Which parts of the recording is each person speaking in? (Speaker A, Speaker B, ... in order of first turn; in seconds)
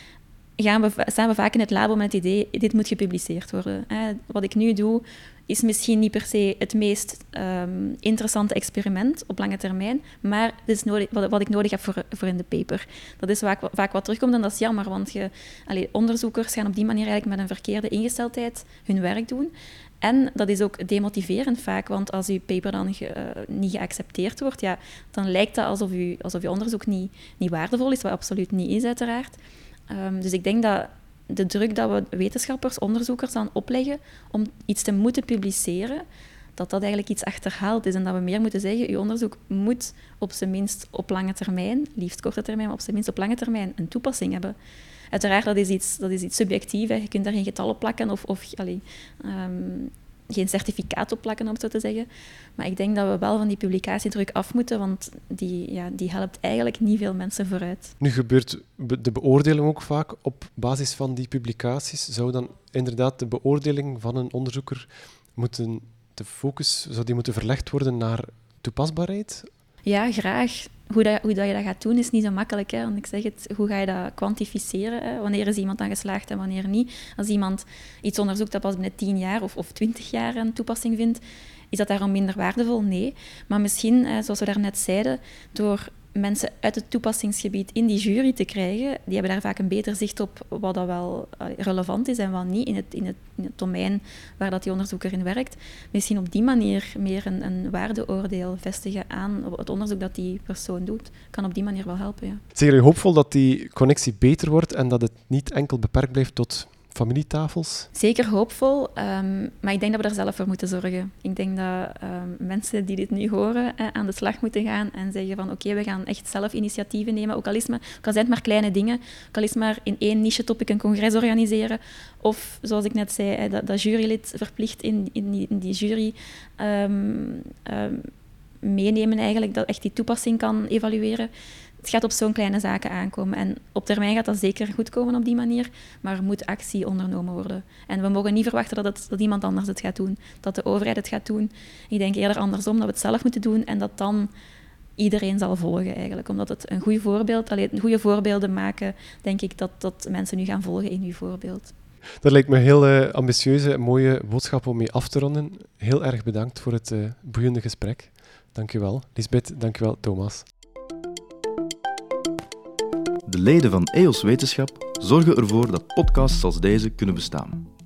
Speaker A: 0.6-29.4, 29.9-36.0, 36.6-44.5, 45.1-57.9, 69.8-102.4, 107.9-128.1, 128.6-131.3, 131.8-144.3, 145.0-151.7
Speaker B: 58.0-69.5, 102.5-107.9, 152.2-160.5
Speaker C: 163.2-167.7